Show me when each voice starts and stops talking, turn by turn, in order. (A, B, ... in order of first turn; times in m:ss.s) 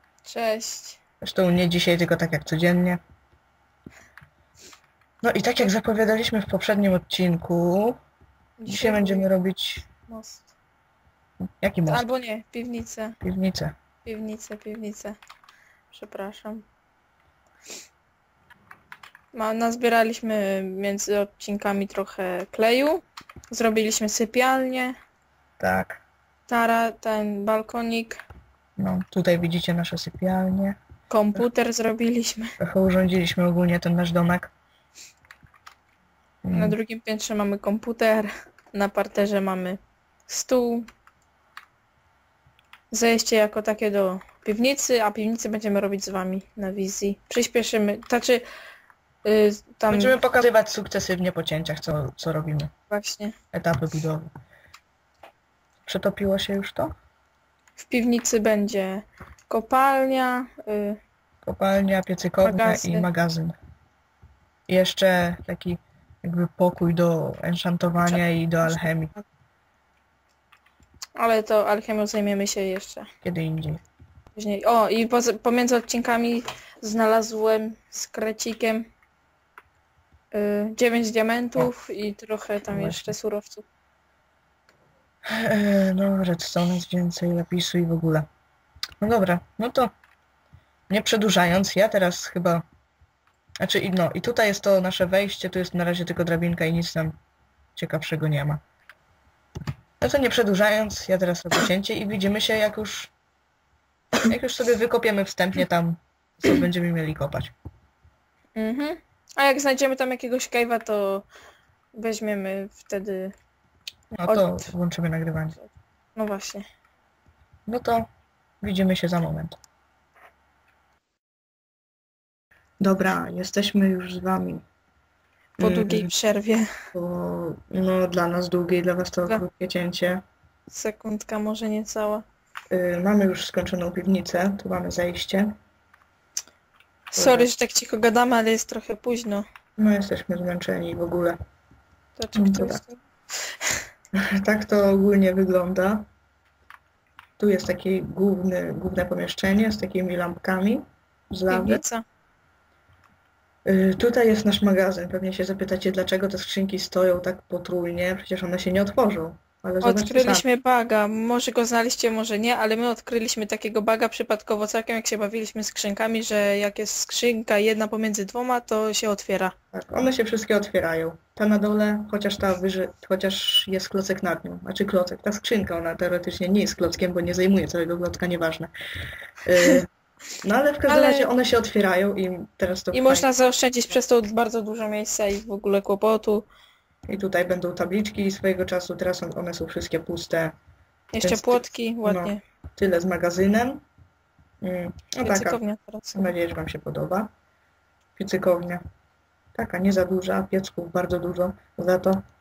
0:00.2-0:01.0 A
0:01.2-0:03.0 B
0:05.2-0:08.0 B
0:08.6-0:09.2 A
0:08.7-0:09.9 B
0:10.1-0:10.5 A
0:11.6-0:12.1 B
0:11.8-0:13.2 A
0:13.2-0:13.7 B
0:14.0-0:15.2 A
0:15.9-0:16.6 A
0:19.3-0:24.9 A
0:25.6-0:26.0 B
0:26.5-0:28.2 A
0:28.8-0:30.8 B
0:31.1-0:32.5 A
0:32.6-0:34.5 B
0:36.4-0:36.8 B
0:36.5-0:40.9 A
0:42.9-0:48.4 A
0:49.2-0:50.2 A
0:49.9-0:52.7 B
0:52.9-0:53.3 A
0:53.5-0:54.3 B
0:55.8-0:56.9 B
0:57.8-1:01.0 A
1:01.4-1:03.5 B
1:02.4-1:03.1 A
1:04.7-1:09.2 B
1:11.2-1:13.1 A
1:13.2-1:13.8 B
1:14.4-1:18.9 A
1:20.3-1:23.6 A
1:22.7-1:23.2 B
1:25.3-1:28.3 B
1:29.0-1:29.9 B
1:30.9-1:32.6 B
1:33.6-1:37.2 B
1:37.8-1:38.6 B
1:40.0-1:43.1 B
1:44.2-1:47.5 B
1:48.6-1:51.3 A
1:51.9-1:53.3 A
1:54.1-1:55.6 B
1:54.2-1:54.7 A
1:56.2-1:56.6 A
1:57.7-1:58.1 B
1:58.6-1:59.6 B
2:02.8-2:04.6 B
2:05.6-2:06.1 B
2:05.6-2:06.7 A
2:06.9-2:10.2 B
2:10.7-2:12.2 A
2:12.7-2:15.5 B
2:17.1-2:19.4 A
2:17.1-2:17.5 B
2:19.8-2:21.4 B
2:22.2-2:23.0 A
2:22.3-2:22.8 B
2:24.3-2:26.0 B
2:27.4-2:31.8 B
2:31.5-2:32.0 A
2:33.6-2:40.4 B
2:39.8-2:49.5 A
2:49.7-2:58.7 B
2:59.4-2:59.9 B
3:00.4-3:03.2 B
3:00.9-3:01.3 A
3:02.9-3:06.4 A
3:07.1-3:10.5 B
3:11.1-3:12.4 A
3:11.2-3:13.8 B
3:14.6-3:15.6 B
3:15.2-3:16.3 A
3:16.1-3:17.3 B
3:18.2-3:18.8 B
3:19.5-3:22.2 B